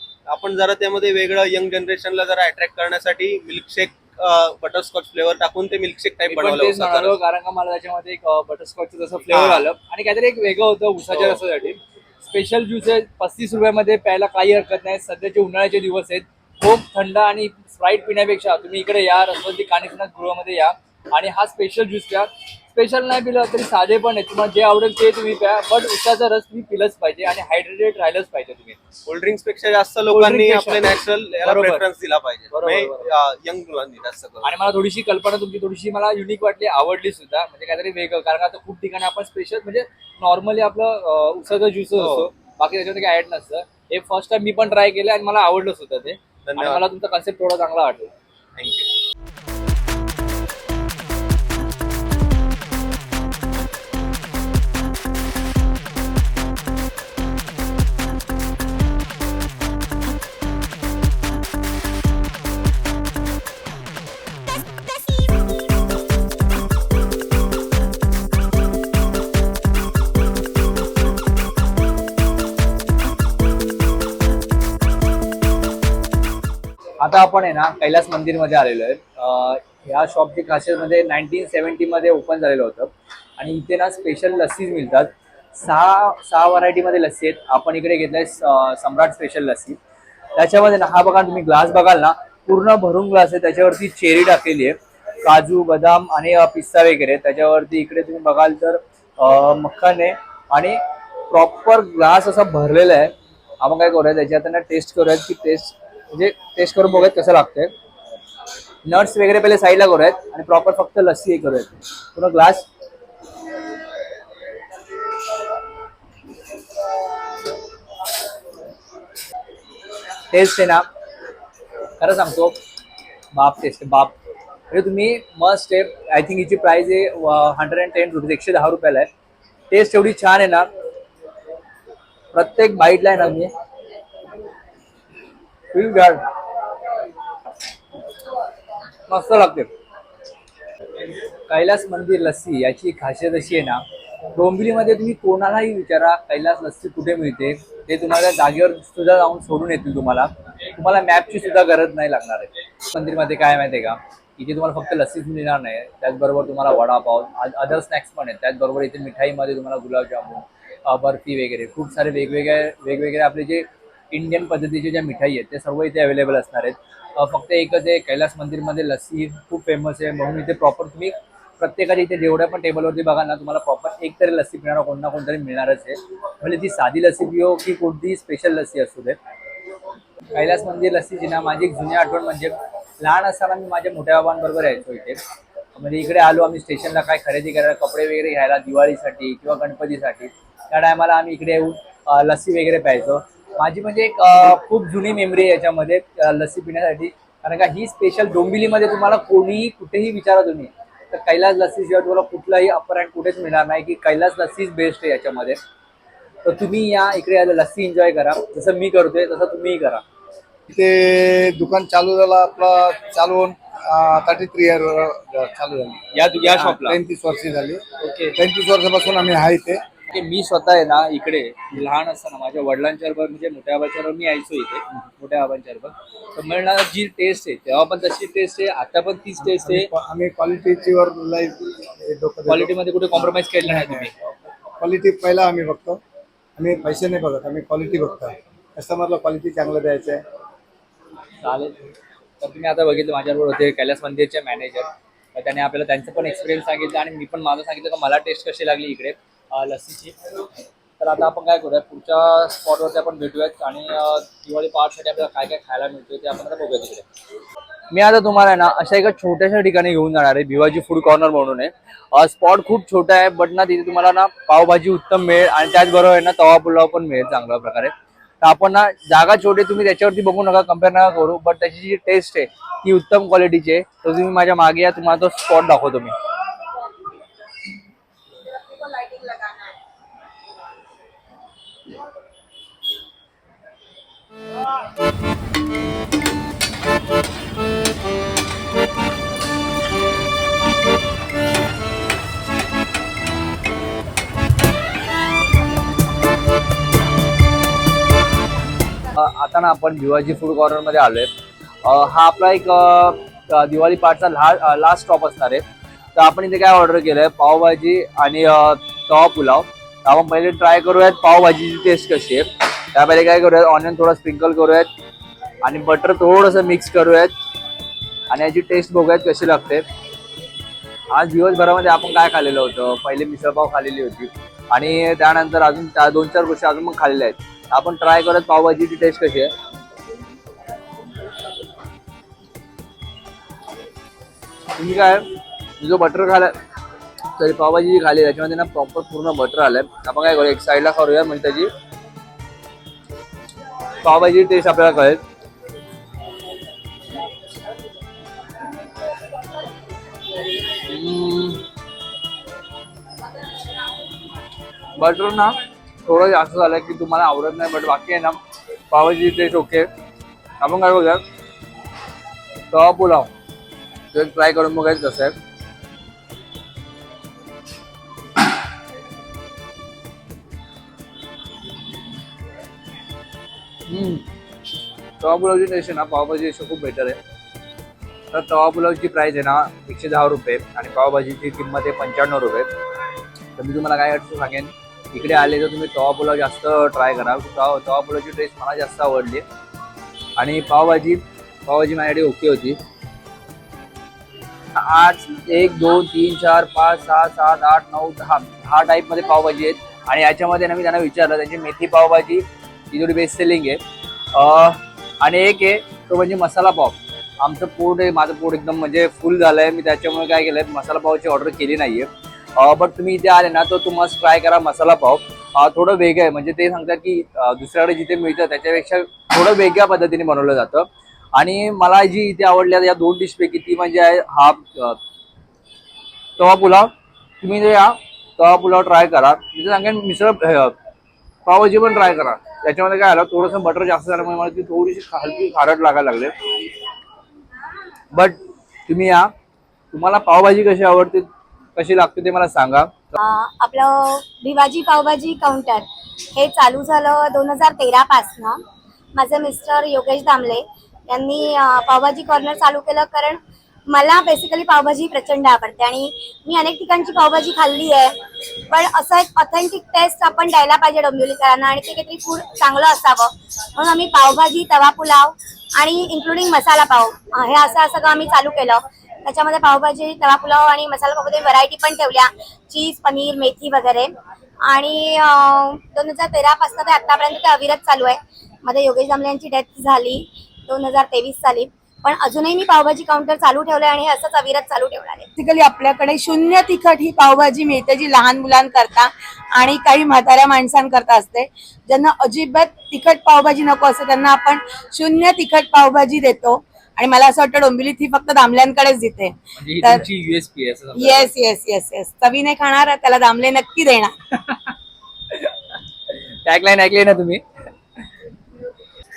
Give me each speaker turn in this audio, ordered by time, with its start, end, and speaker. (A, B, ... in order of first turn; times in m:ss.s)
0:00.3-0:07.2 A
0:06.3-0:28.8 B
0:09.3-0:09.7 A
0:11.1-0:11.4 A
0:29.1-0:34.5 A
0:30.1-0:31.9 B
0:32.5-0:33.1 B
0:34.4-0:48.1 B
0:42.0-0:42.3 A
0:46.4-0:46.9 A
0:48.6-0:48.9 A
1:17.0-1:29.8 B
1:30.4-1:47.7 B
1:48.8-1:52.7 B
2:00.3-2:00.9 B
2:02.0-2:02.6 B
2:03.3-2:04.2 B
2:04.7-2:09.1 B
2:09.7-2:10.7 B
2:12.3-2:13.5 B
2:15.7-2:16.2 B
2:19.1-2:19.7 B
2:21.5-2:59.2 B
3:00.3-3:05.2 B
3:05.8-3:25.6 B
3:26.4-3:30.0 B
3:30.7-3:37.8 C
3:36.1-3:37.0 B
3:38.0-3:38.4 B
3:38.4-3:39.8 C
3:40.1-3:49.9 B
3:49.4-3:54.1 C
3:52.5-3:54.1 B
3:54.8-3:56.0 C
3:56.6-4:00.2 C
4:01.4-4:01.8 B
4:02.4-4:10.2 B
4:11.0-4:17.0 B
4:17.9-4:36.2 B
4:59.1-5:01.3 B
5:01.8-5:05.6 B
5:06.2-5:14.9 B
5:15.6-5:17.3 B
5:18.3-5:19.8 B
5:21.1-5:29.5 B
5:34.8-5:35.2 B
5:35.8-5:36.5 B
5:37.4-5:41.7 B
5:44.0-5:45.2 B
5:50.7-5:51.6 B
5:55.0-5:58.4 B
5:58.9-5:59.9 B
6:00.6-6:01.2 B
6:02.7-6:03.3 B
6:04.1-6:05.4 B
6:13.9-6:14.3 B
6:15.2-6:17.2 B
6:18.3-6:22.7 B
6:23.6-6:29.4 B
6:30.4-6:32.8 B
6:34.7-6:43.8 B
6:44.3-7:05.0 B
7:06.4-7:10.8 B
7:11.5-7:16.3 B
7:18.1-7:19.3 B
7:19.9-7:23.0 B
7:23.2-7:28.6 D
7:29.2-7:38.2 D
7:38.7-7:54.1 D
7:54.7-8:05.3 D
8:05.4-8:20.0 E
8:19.6-8:21.3 B
8:21.0-8:24.1 E
8:24.3-8:24.7 B
8:25.3-8:25.8 B
8:26.4-8:27.4 B